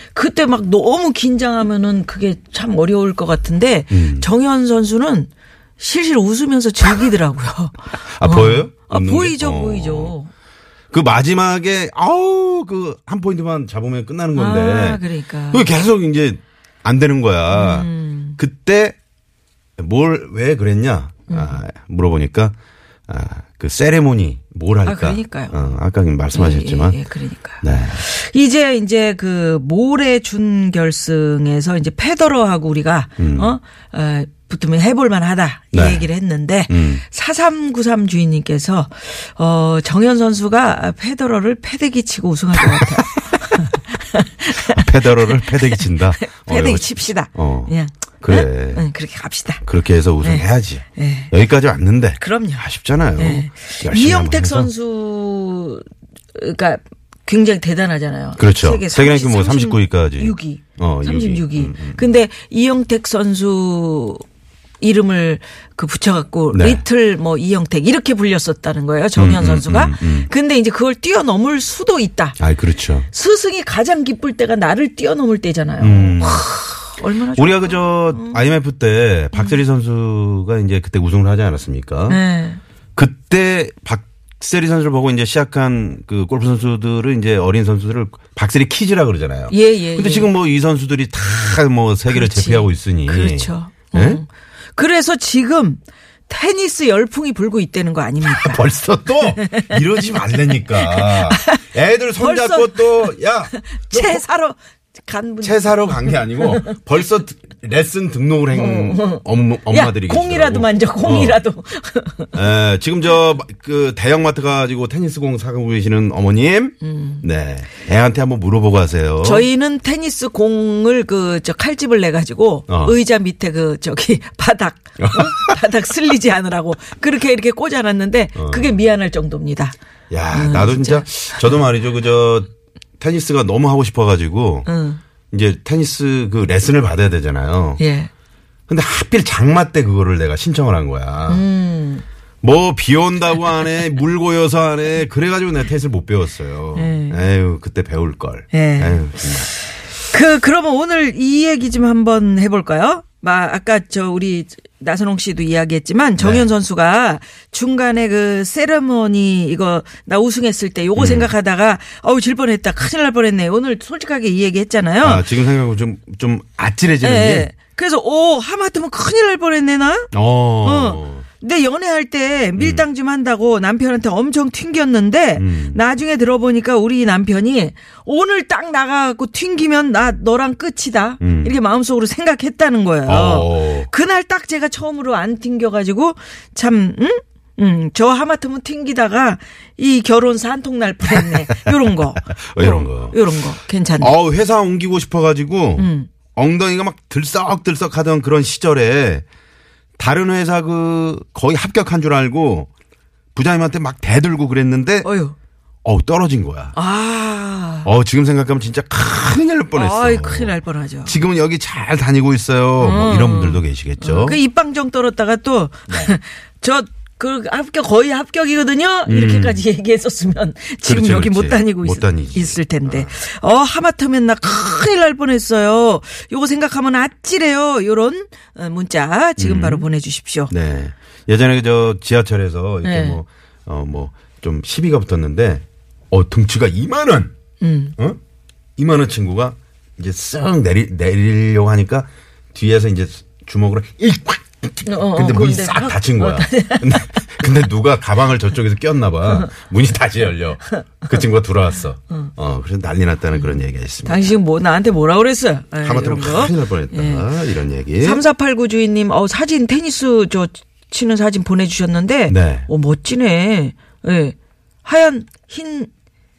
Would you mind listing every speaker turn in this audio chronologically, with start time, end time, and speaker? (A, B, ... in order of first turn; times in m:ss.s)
0:00.1-0:10.3 A
0:03.9-0:04.3 B
0:08.1-0:10.2 B
0:10.9-0:19.0 B
0:14.4-0:15.7 A
0:17.5-0:18.4 A
0:19.8-0:22.6 B
0:21.3-0:21.6 A
0:23.1-0:27.0 B
0:24.8-0:25.6 A
0:26.3-0:49.6 A
0:27.6-0:28.0 B
0:33.2-0:33.5 B
0:35.7-0:36.1 B
0:36.7-0:37.0 B
0:42.6-0:43.1 B
0:44.6-0:48.8 B
0:49.6-0:54.7 B
0:51.0-0:51.3 A
0:52.2-0:52.6 A
0:53.2-1:04.2 A
0:58.4-1:02.0 B
1:04.8-1:12.4 A
1:06.5-1:06.8 B
1:09.2-1:10.3 B
1:12.4-1:13.1 B
1:13.1-1:18.4 A
1:15.8-1:16.5 B
1:17.4-1:22.2 B
1:22.1-1:22.6 A
1:23.0-1:34.2 B
1:29.5-1:30.3 A
1:32.1-1:38.7 A
1:38.2-1:44.2 B
1:39.4-1:39.8 A
1:40.8-1:41.6 A
1:42.2-1:43.1 A
1:43.7-1:46.7 A
1:45.4-1:51.4 B
1:48.5-1:52.3 A
1:52.3-1:59.5 B
1:56.8-1:57.2 A
1:59.2-2:09.8 A
2:02.7-2:02.9 B
2:05.0-2:05.6 B
2:08.4-2:08.7 B
2:10.1-2:14.7 B
2:10.3-2:11.4 A
2:14.7-2:15.0 A
2:15.3-2:17.8 B
2:17.8-2:18.1 A
2:18.7-2:21.4 B
2:21.3-2:22.0 A
2:22.4-2:29.5 B
2:26.8-2:27.2 A
2:28.5-2:45.2 A
2:36.2-2:36.5 B
2:41.0-2:41.3 B
2:45.0-2:47.5 B
2:47.0-2:50.1 A
2:50.1-2:51.2 B
2:50.6-3:14.1 A
2:52.6-2:52.8 B
2:55.4-2:55.8 B
3:01.2-3:01.5 B
3:03.1-3:03.9 B
3:11.1-3:13.2 B
3:14.0-3:19.2 B
3:15.8-3:16.1 A
3:20.0-3:22.7 B
3:23.4-3:25.1 B
3:25.0-3:25.4 A
3:25.8-3:26.8 B
3:26.8-3:27.9 A
3:27.8-3:34.4 B
3:29.7-3:31.1 A
3:32.8-3:50.5 A
3:39.1-3:39.6 B
3:40.8-3:43.1 B
3:49.4-3:49.9 B
3:50.5-3:57.3 B
3:52.8-3:53.2 A
3:57.6-3:58.0 A
3:58.8-4:14.3 B
4:04.8-4:07.2 A
4:10.8-4:11.1 A
4:14.0-4:17.2 A
4:15.8-4:18.2 B
4:18.0-4:25.9 A
4:22.3-4:22.7 B